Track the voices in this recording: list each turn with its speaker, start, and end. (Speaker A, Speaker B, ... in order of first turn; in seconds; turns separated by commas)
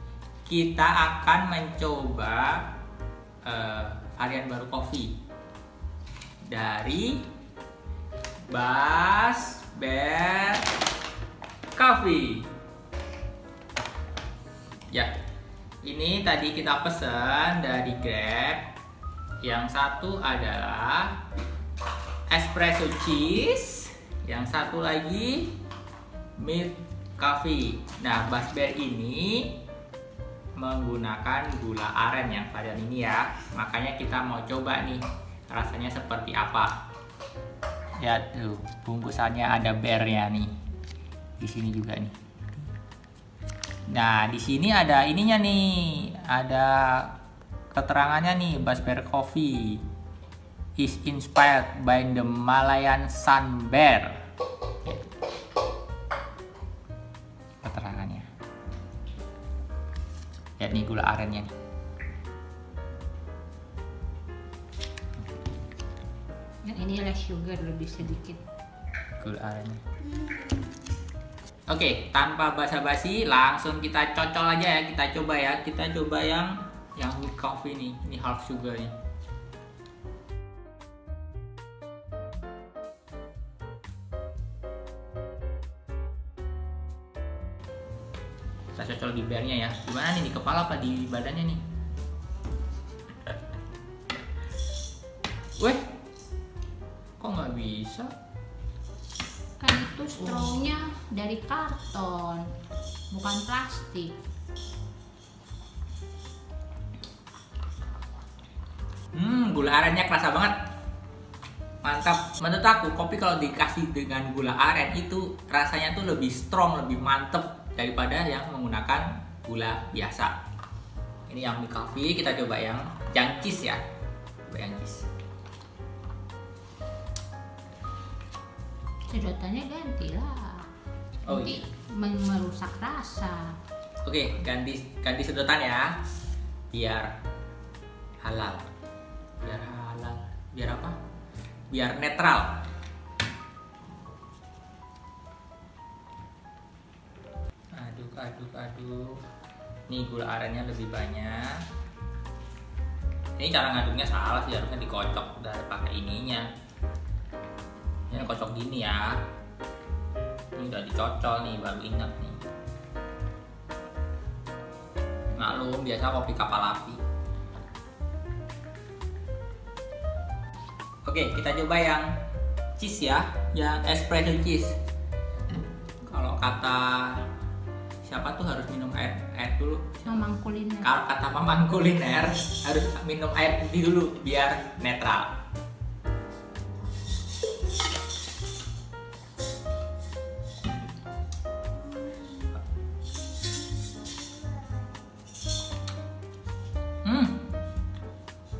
Speaker A: 0.5-2.7, Speaker A: 3.4-5.2, Speaker A: 6.5-7.3, Speaker A: 8.5-10.7, Speaker A: 11.7-12.5, Speaker A: 15.8-18.7, Speaker A: 19.4-21.2, Speaker A: 22.3-25.6, Speaker A: 26.4-29.6, Speaker A: 30.6-36.7, Speaker A: 38.0-40.5, Speaker A: 41.4-42.6, Speaker A: 43.9-47.2, Speaker A: 47.7-49.8, Speaker A: 50.8-54.2, Speaker A: 57.6-58.3, Speaker A: 60.6-61.5, Speaker B: 66.6-68.4, Speaker A: 69.2-69.8, Speaker A: 71.7-78.9, Speaker A: 88.7-91.6, Speaker A: 95.6-95.9, Speaker A: 97.2-98.1, Speaker B: 99.6-102.5, Speaker B: 103.1-104.2, Speaker A: 109.1-110.5, Speaker A: 111.8-120.3, Speaker A: 121.3-123.8, Speaker A: 124.4-125.1, Speaker B: 129.1-130.7, Speaker A: 131.2-131.6, Speaker B: 131.2-133.6, Speaker A: 134.0-136.0, Speaker A: 136.7-137.1, Speaker A: 138.2-138.7, Speaker A: 139.4-141.0, Speaker A: 141.7-142.6, Speaker A: 147.7-149.2, Speaker A: 149.9-151.6, Speaker A: 153.4-156.5, Speaker A: 158.1-159.2, Speaker A: 160.5-162.4, Speaker A: 165.3-167.0, Speaker A: 171.0-172.1, Speaker A: 172.8-174.8, Speaker A: 176.1-177.3, Speaker A: 178.0-180.1, Speaker B: 180.0-180.9, Speaker A: 180.8-185.4, Speaker A: 197.0-197.4